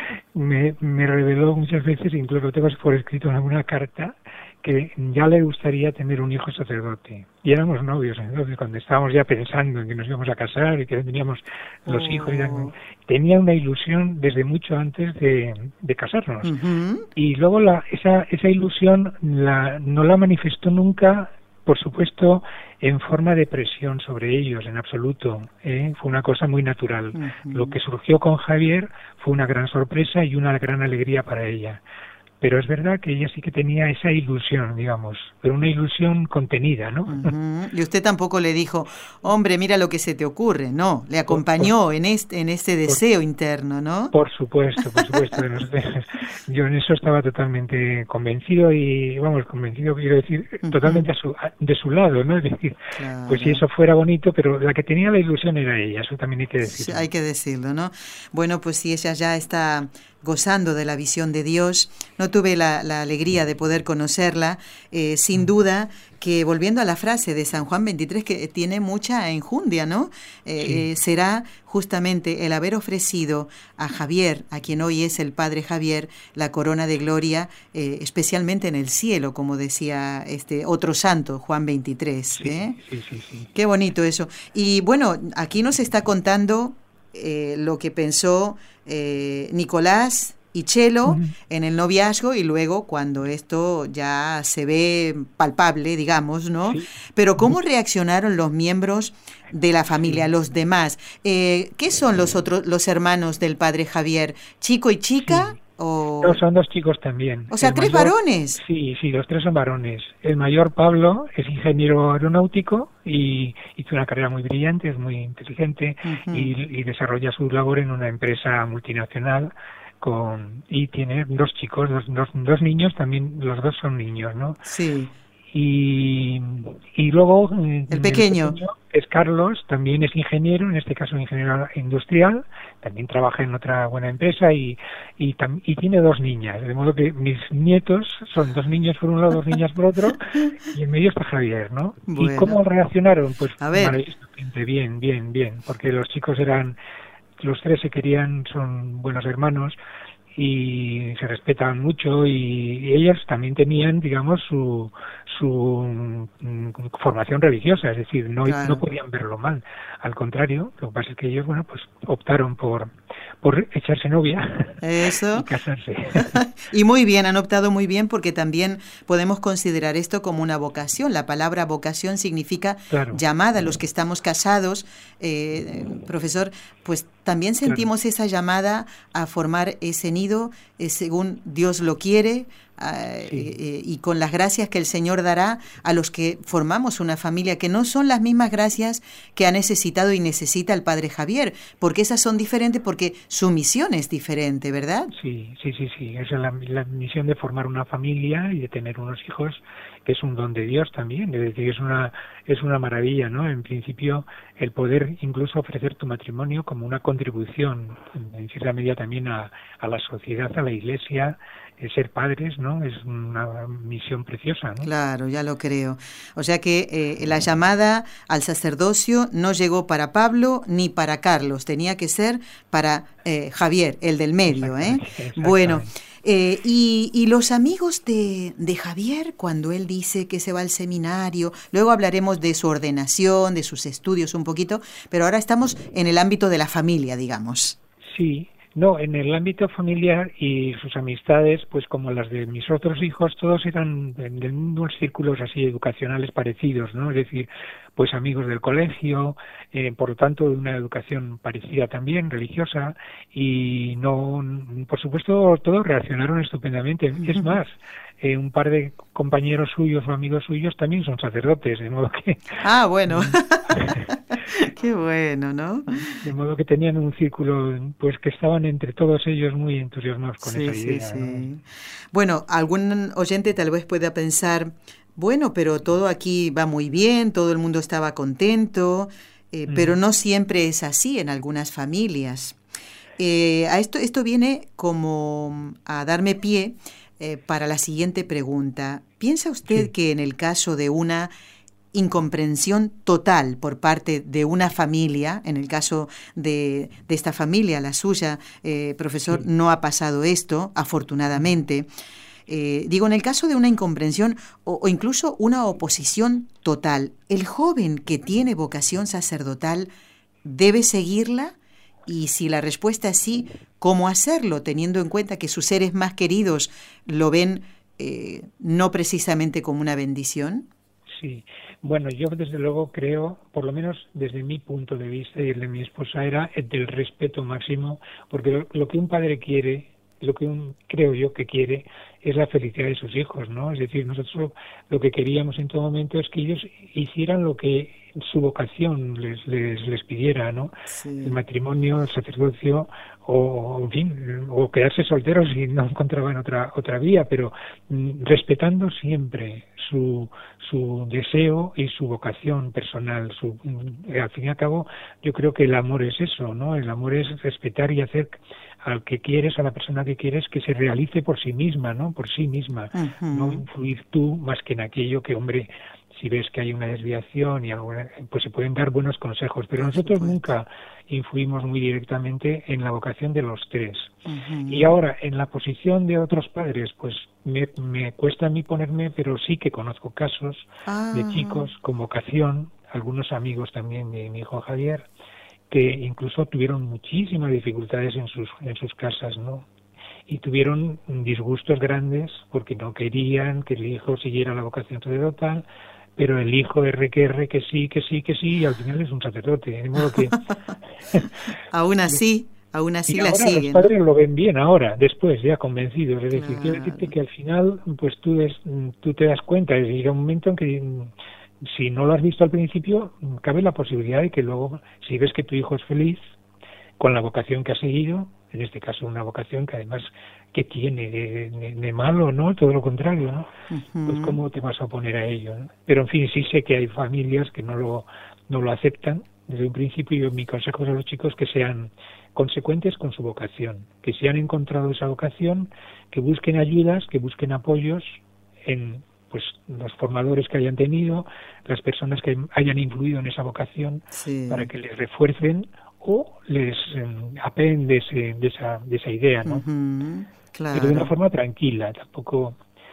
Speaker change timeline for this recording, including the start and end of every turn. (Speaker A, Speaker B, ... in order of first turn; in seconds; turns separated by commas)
Speaker A: 0.3-16.5, Speaker B: 11.9-12.7, Speaker B: 16.4-17.1, Speaker A: 17.2-31.8, Speaker B: 27.1-27.8, Speaker A: 32.4-37.3, Speaker B: 37.1-44.1, Speaker A: 41.3-41.7, Speaker A: 44.1-57.1, Speaker B: 50.6-51.1, Speaker B: 53.0-53.6, Speaker B: 56.7-82.8, Speaker A: 82.4-83.5, Speaker B: 83.5-106.4, Speaker A: 91.1-91.3, Speaker A: 105.2-105.5, Speaker A: 106.2-124.6, Speaker B: 107.5-108.6, Speaker B: 116.0-116.5, Speaker B: 124.6-125.1, Speaker A: 125.5-146.8, Speaker B: 127.9-128.6, Speaker B: 142.1-142.6, Speaker B: 143.6-144.0, Speaker A: 147.4-149.8, Speaker A: 150.3-166.4, Speaker B: 158.4-158.8, Speaker B: 164.8-165.5, Speaker B: 166.2-195.1, Speaker A: 172.9-173.2, Speaker A: 195.1-214.9, Speaker B: 214.8-237.8, Speaker A: 224.5-225.9, Speaker A: 238.1-264.1, Speaker B: 257.2-257.6, Speaker B: 262.6-266.2, Speaker A: 266.2-271.5, Speaker B: 270.4-282.6, Speaker A: 279.7-279.9, Speaker B: 283.2-291.3, Speaker B: 291.9-301.9, Speaker B: 302.5-309.9, Speaker B: 310.4-311.6, Speaker B: 312.1-320.7, Speaker A: 321.1-374.1, Speaker B: 340.9-341.4, Speaker B: 362.9-363.6, Speaker B: 369.8-370.5, Speaker B: 374.2-375.0, Speaker A: 374.7-385.1, Speaker B: 380.9-381.7, Speaker A: 385.7-389.7, Speaker A: 390.3-395.6, Speaker A: 396.2-400.4, Speaker B: 400.2-403.9, Speaker A: 403.1-416.2, Speaker B: 406.3-407.1, Speaker A: 417.0-423.5, Speaker B: 423.7-424.4, Speaker A: 424.1-449.6, Speaker B: 444.1-444.7, Speaker B: 449.5-451.1, Speaker A: 450.7-452.6